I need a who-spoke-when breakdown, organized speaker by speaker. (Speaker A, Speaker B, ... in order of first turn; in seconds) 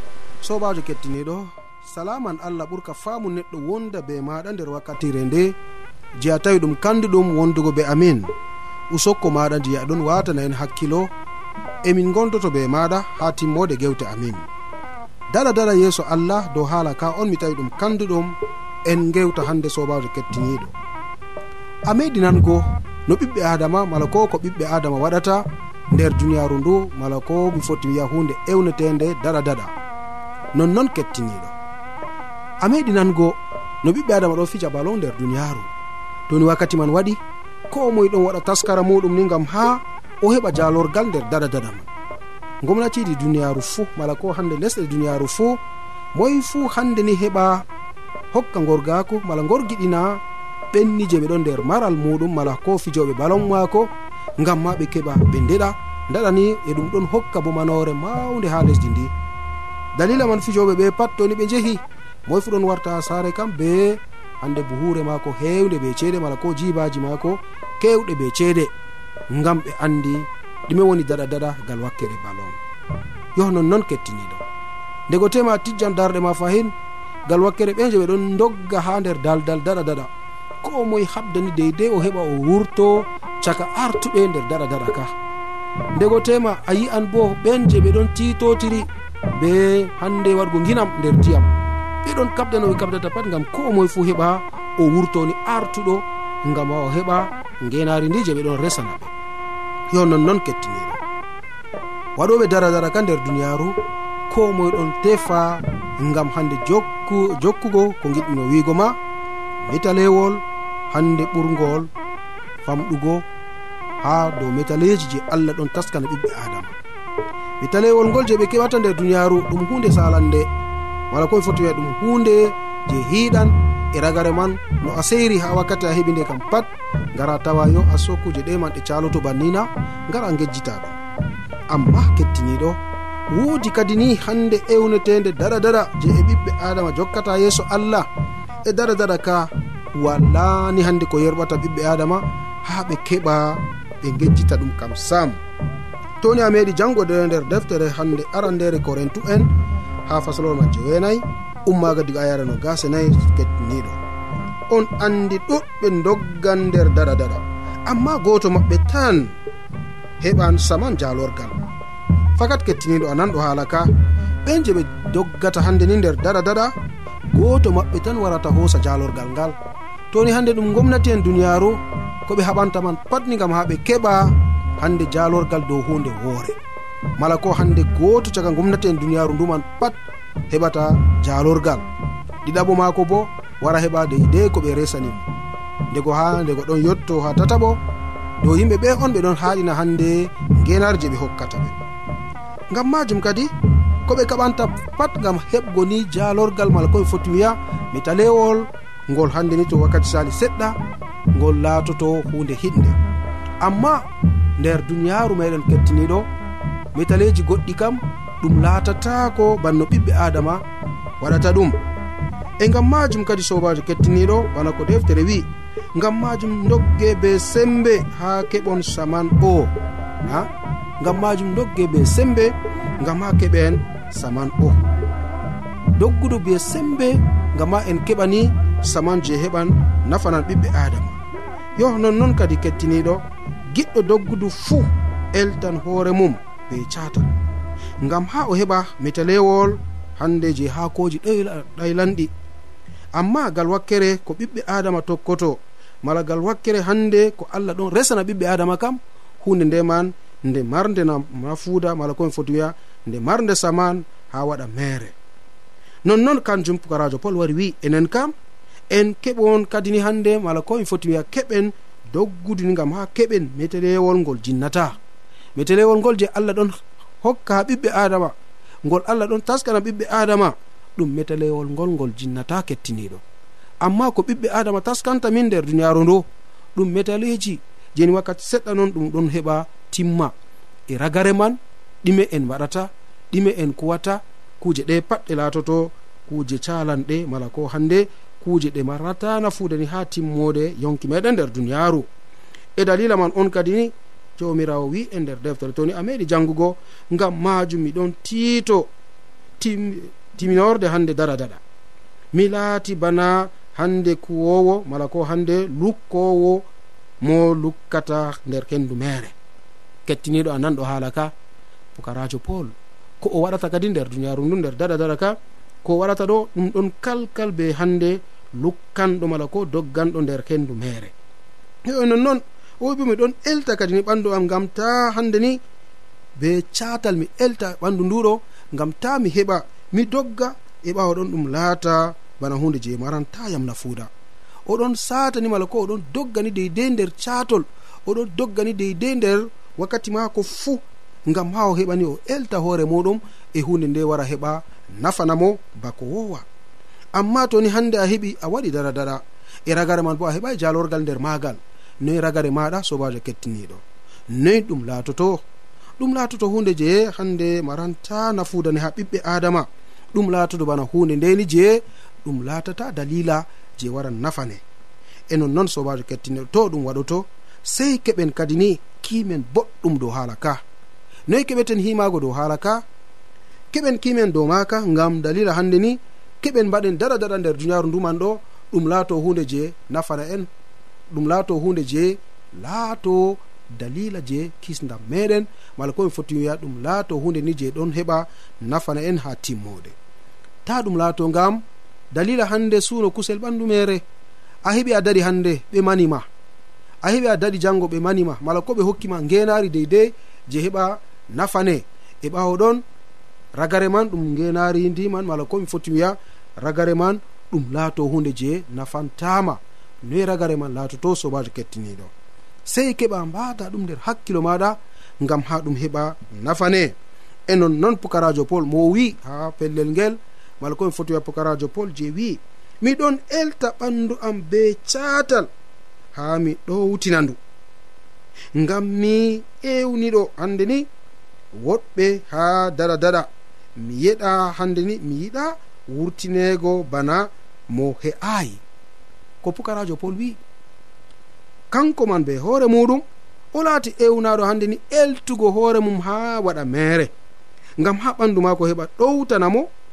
Speaker A: 0.4-5.6, 6.2-8.3, 8.9-11.1, 11.8-14.5, 15.3-20.7, 21.9-29.8, 30.5-31.6, 32.6-35.7, 36.3-41.9, 42.6-45.6, 46.1-47.7, 48.3-59.1, 60.0-68.7, 69.3-72.6, 73.4-74.4, 75.1-76.7, 77.3-80.1, 80.6-85.1, 86.0-91.5, 92.0-99.1, 99.9-101.0, 102.2-103.8, 104.3-109.0, 109.7-111.9, 112.6-113.3, 114.0-116.8, 117.6-120.5, 121.1-131.0, 131.7-138.1, 138.7-145.4, 146.2-149.5, 150.1-154.0, 154.7-159.4, 160.2-161.6, 162.4-163.9, 164.4-166.7, 167.3-169.6, 170.1-176.6, 177.2-181.9, 182.4-185.3, 185.9-187.8, 188.4-191.8, 192.7-193.5, 194.0-200.8, 201.3-203.0, 203.6-204.1, 204.6-206.3, 206.9-210.6, 211.2-211.8, 212.6-220.5, 221.0-224.8, 226.0-231.2, 231.8-237.4, 238.0-242.3, 243.2-255.2, 256.1-258.3, 258.9-265.0, 265.6-273.2, 273.8-280.3, 280.9-292.1, 292.8-298.9, 299.6-301.6, 302.3-306.7, 307.2-309.3, 310.1-311.3, 311.9-321.1, 321.9-325.6, 326.4-334.1, 334.7-346.5, 347.1-355.4, 356.0-364.6, 365.3-370.6, 371.3-372.8, 373.7-380.5, 381.1-390.0, 390.6-394.1, 394.6-396.3, 397.0-402.8, 403.6-412.1, 412.7-416.9, 417.5-425.5, 426.1-427.4, 428.6-430.9, 431.6-438.6, 439.4-440.4, 441.7-447.1, 447.8-449.7